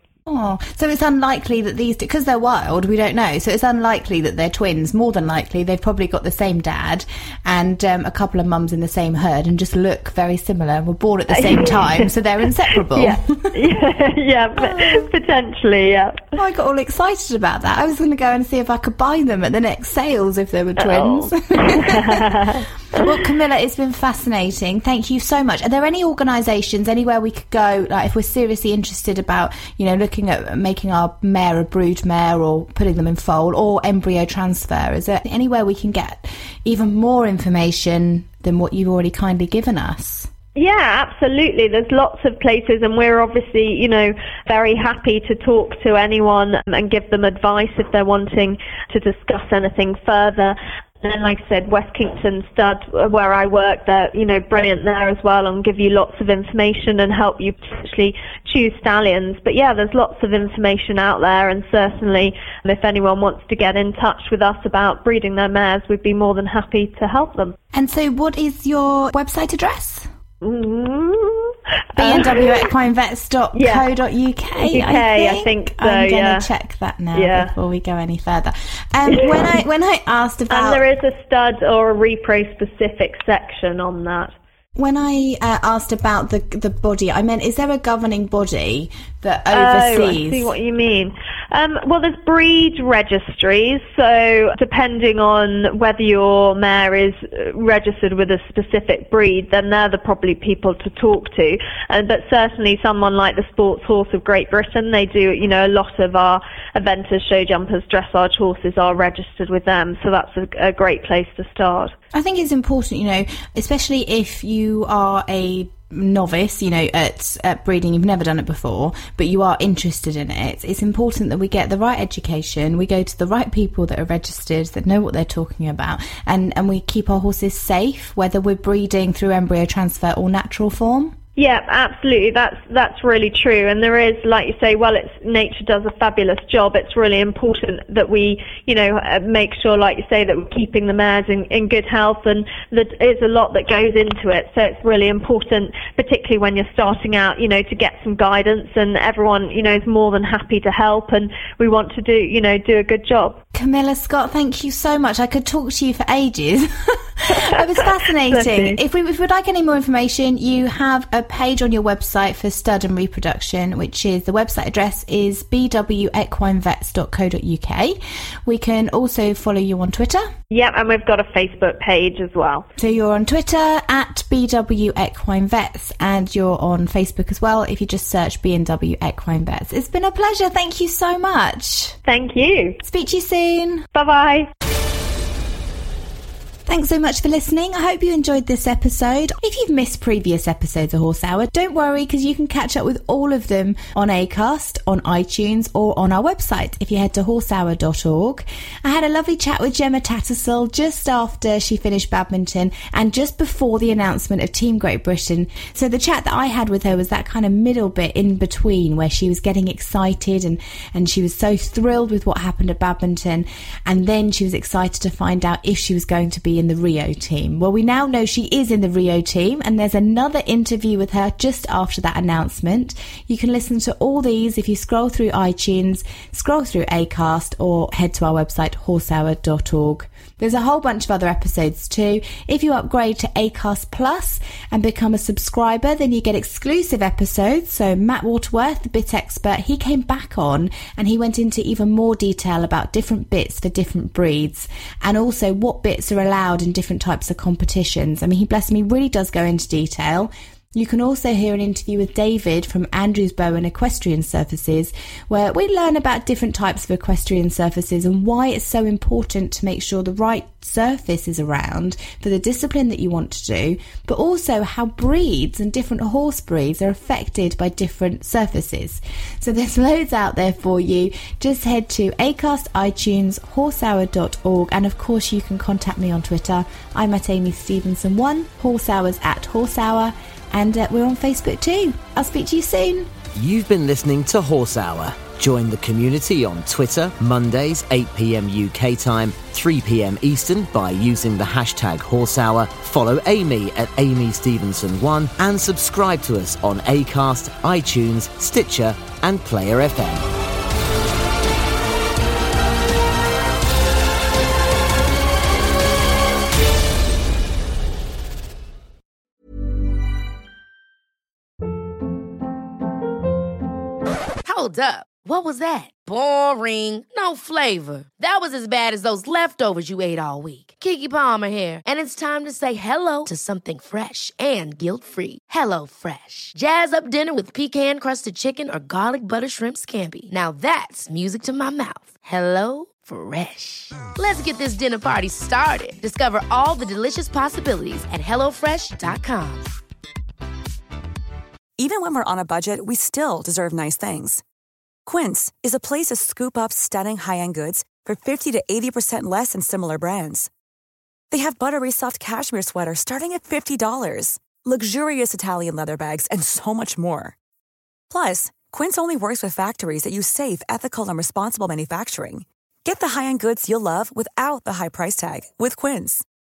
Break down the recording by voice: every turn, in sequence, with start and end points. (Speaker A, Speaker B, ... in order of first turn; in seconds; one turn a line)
Speaker A: 0.2-13.5
Speaker B: 11.3-12.1
Speaker B: 12.9-16.3
Speaker A: 14.6-15.1
Speaker A: 16.4-40.3
Speaker B: 20.8-23.2
Speaker B: 40.5-67.5
Speaker A: 67.7-70.1
Speaker B: 70.4-72.6
Speaker A: 72.0-80.8
Speaker B: 73.5-73.8
Speaker B: 74.6-76.5
Speaker B: 77.1-77.5
Speaker B: 79.1-79.6
Speaker B: 80.5-84.3
Speaker A: 84.8-90.5
Speaker B: 89.5-111.9
Speaker A: 112.1-131.1
Speaker B: 131.3-153.4
Speaker A: 153.5-170.3
Speaker B: 157.3-158.8
Speaker B: 170.5-172.7
Speaker A: 172.8-182.0
Speaker B: 182.1-182.8
Speaker A: 182.8-183.9
Speaker B: 183.9-184.5
Speaker A: 186.7-283.1
Speaker C: 283.3-300.3
Speaker D: 314.4-339.7
Speaker E: 341.8-344.4
Speaker E: 345.1-350.5
Speaker E: 351.3-357.4
Speaker E: 358.1-366.2